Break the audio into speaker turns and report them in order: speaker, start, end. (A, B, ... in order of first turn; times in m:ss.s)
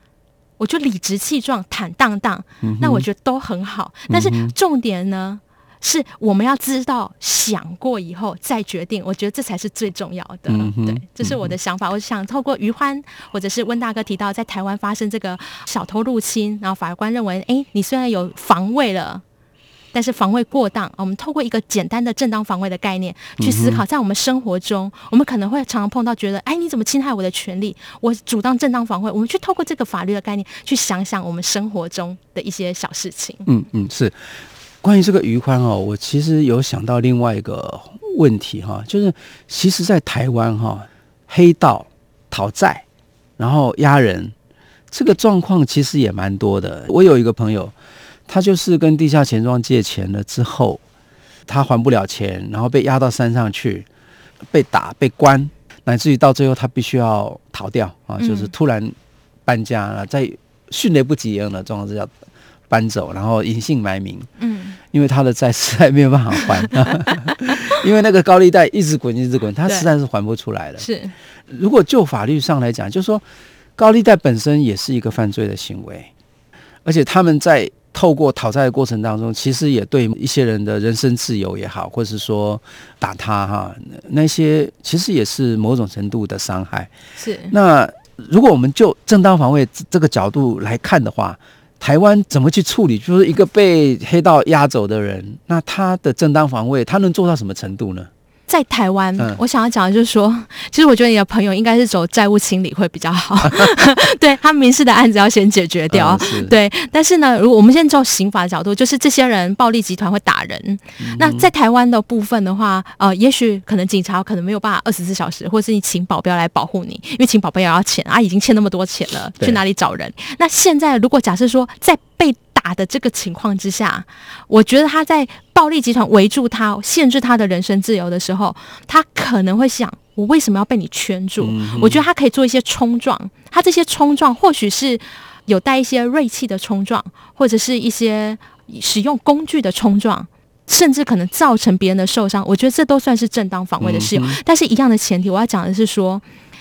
0:00.6-0:19.2 A
0:02.6-0:03.0 B
0:04.1-0:04.5 B
0:10.5-0:11.5 B
0:19.9-0:33.5 A
0:23.4-0:23.8 B
0:33.4-0:34.1 B
0:34.8-0:42.8 B
0:43.4-0:44.3 B
0:44.9-0:47.7 B
0:48.3-0:50.8 B
0:51.5-0:53.8 B
0:54.5-1:02.1 B
0:58.2-0:58.5 A
1:02.7-1:04.3 B
1:04.4-1:04.8 A
1:04.9-1:10.8 B
1:06.4-1:07.8 A
1:09.6-1:09.9 A
1:10.8-1:11.1 A
1:11.5-1:13.2 B
1:13.8-1:16.1 B
1:16.8-1:26.9 B
1:27.2-1:27.5 A
1:27.5-1:38.1 B
1:38.5-2:26.2 A
1:45.9-1:46.5 B
1:51.0-1:51.5 B
2:11.4-2:12.0 B
2:23.8-2:24.4 B